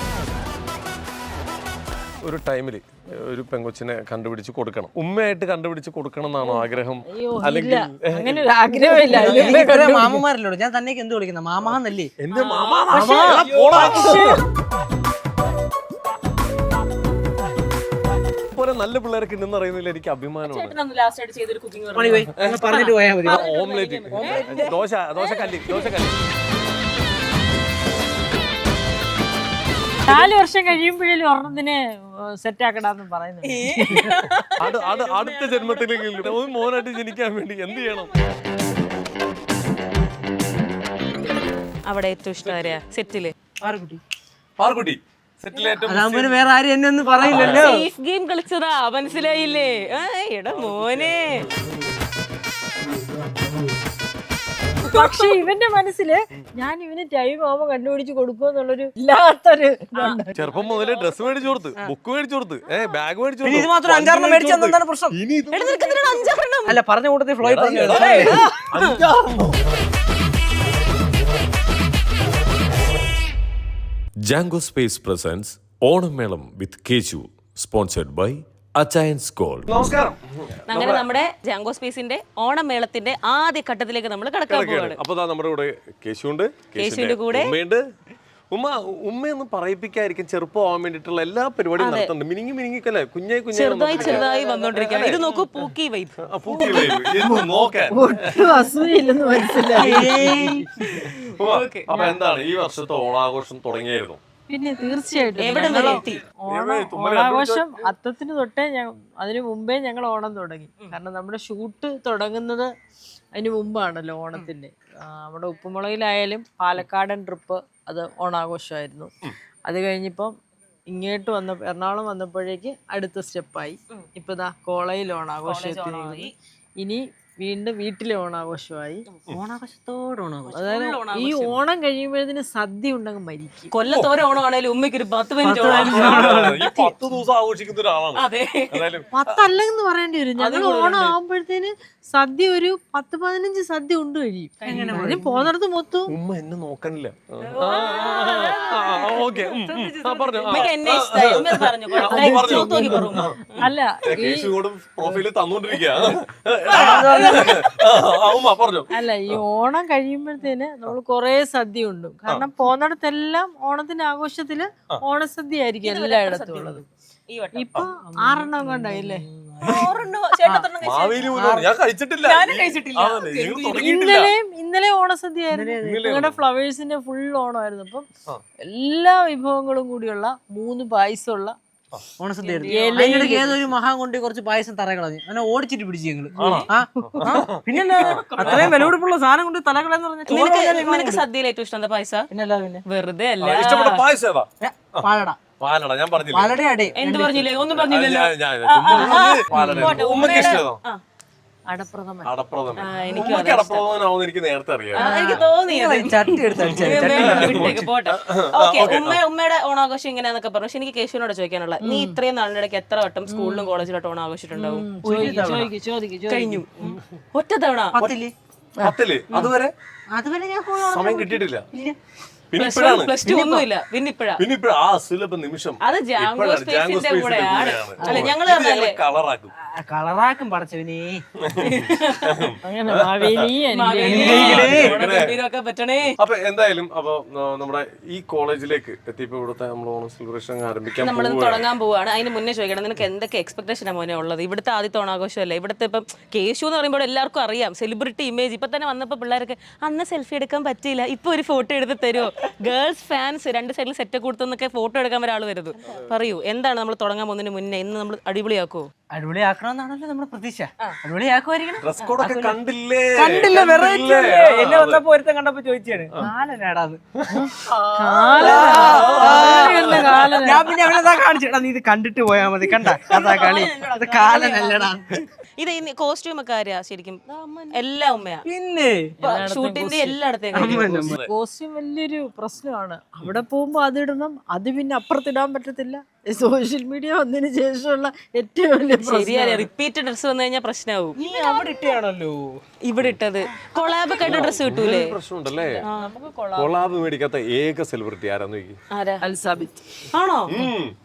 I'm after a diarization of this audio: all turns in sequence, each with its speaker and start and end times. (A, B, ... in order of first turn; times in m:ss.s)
0:02.2-0:09.6 A
0:06.4-0:10.2 B
0:09.1-0:12.1 C
0:11.7-0:14.4 A
0:12.3-0:13.8 D
0:12.9-0:14.4 B
0:18.5-0:20.8 A
0:20.5-0:25.9 D
0:21.1-0:22.2 B
0:21.9-0:23.5 C
0:22.4-0:22.7 A
0:23.2-0:26.2 A
0:23.5-0:24.2 B
0:24.1-0:24.6 C
0:30.0-0:34.1 B
0:33.4-0:36.7 D
0:34.6-0:38.1 A
0:41.8-0:43.3 D
0:42.4-0:42.8 A
0:43.6-0:44.0 C
0:44.6-0:46.4 A
0:45.8-0:47.8 C
0:47.2-0:47.7 A
0:47.2-0:51.4 D
0:50.5-0:51.5 A
0:54.9-0:55.3 D
0:54.9-1:00.4 B
1:00.0-1:01.4 D
1:00.3-1:05.9 A
1:03.4-1:05.1 C
1:05.5-1:06.8 D
1:06.7-1:08.4 C
1:07.4-1:09.7 A
1:08.1-1:09.0 D
1:14.2-1:19.6 E
1:18.8-1:21.0 A
1:20.7-1:25.0 D
1:24.5-1:27.8 A
1:26.8-1:27.5 D
1:28.5-1:35.2 A
1:31.8-1:32.1 D
1:33.5-1:36.8 D
1:33.9-1:35.4 C
1:36.2-1:38.6 A
1:36.5-1:41.0 B
1:39.6-1:42.2 D
1:39.7-1:40.6 C
1:41.4-1:44.2 A
1:44.5-1:52.7 B
1:45.4-1:46.2 D
1:46.5-1:47.9 A
1:53.3-1:59.1 B
1:59.6-2:00.4 B
2:00.9-2:09.0 B
2:05.4-2:06.3 D
2:09.3-2:10.7 C
2:10.5-2:11.6 D
2:10.6-2:13.7 B
2:13.7-2:16.8 D
2:15.4-2:16.6 C
2:15.6-2:19.4 A
2:18.2-2:18.9 D
2:19.1-2:26.1 B
2:20.4-2:21.2 D
2:24.6-2:25.2 D
2:24.7-2:25.2 C
2:25.2-2:25.5 A
2:26.1-2:33.4 A
2:27.4-2:29.3 D
2:28.3-2:30.7 C
2:30.5-2:33.7 D
2:32.0-2:36.0 B
2:34.0-2:39.4 A
2:36.7-2:37.6 C
2:36.9-2:37.4 B
2:36.9-2:37.2 D
2:38.9-2:46.8 B
2:45.8-2:47.7 D
2:47.5-2:49.2 B
2:47.9-2:50.7 C
2:49.6-2:51.3 D
2:50.8-2:54.3 A
2:51.3-2:51.7 C
2:52.2-2:53.9 D
2:53.7-2:58.1 B
2:55.5-2:56.1 C
2:55.8-2:56.4 A
2:58.6-3:01.6 B
3:02.2-3:11.2 C
3:02.4-3:03.5 D
3:02.7-3:03.6 B
3:06.4-3:06.7 D
3:06.4-3:08.9 A
3:08.0-3:08.7 D
3:10.3-3:12.3 D
3:12.3-3:12.8 C
3:12.8-3:14.0 D
3:13.4-3:15.0 A
3:14.6-3:15.4 C
3:15.6-3:16.5 A
3:16.3-3:17.5 C
3:17.0-3:21.0 D
3:17.6-3:20.8 A
3:18.9-3:20.6 B
3:21.7-3:22.3 B
3:22.2-3:25.4 A
3:22.8-3:23.8 D
3:24.9-3:34.8 D
3:25.0-3:25.4 B
3:25.0-3:27.7 C
3:26.6-3:29.2 A
3:31.8-3:32.2 B
3:33.3-3:33.7 B
3:34.5-3:37.0 B
3:35.0-3:35.7 C
3:36.3-3:36.7 D
3:37.3-3:38.0 D
3:38.0-3:38.3 C
3:38.8-3:39.7 A
3:40.1-3:42.0 C
3:40.9-3:41.6 A
3:42.5-3:43.5 A
3:42.6-3:44.4 D
3:44.4-3:49.5 A
3:45.8-3:49.0 D
3:48.0-3:48.3 C
3:49.6-3:51.2 C
3:51.4-3:53.4 A
3:51.6-3:52.5 D
3:52.6-3:54.7 B
3:53.7-3:56.2 D
3:54.0-3:54.9 C
3:54.2-3:55.3 A
3:56.1-4:01.6 A
4:01.0-4:18.9 D
4:19.1-4:22.5 C
4:21.8-4:25.0 A
4:23.1-4:27.0 C
4:27.2-4:27.4 A
4:27.3-4:30.7 B
4:28.0-4:35.1 C
4:28.3-4:30.4 D
4:28.4-4:30.3 A
4:32.7-4:34.9 B
4:35.6-4:38.4 D
4:37.3-4:37.6 B
4:38.4-4:39.1 C
4:39.2-4:40.2 B
4:39.2-4:40.9 D
4:40.5-4:41.2 C
4:40.6-4:41.3 A
4:41.1-4:49.7 B
4:49.0-4:51.2 D
4:51.2-4:52.6 C
4:51.3-4:52.0 B
4:52.8-4:55.2 D
4:54.2-4:55.8 A
4:55.5-4:56.9 B
4:55.8-4:56.1 D
4:56.6-4:58.8 A
4:58.9-4:59.2 D
4:59.2-4:59.8 B
5:00.1-5:00.7 D
5:00.5-5:00.9 A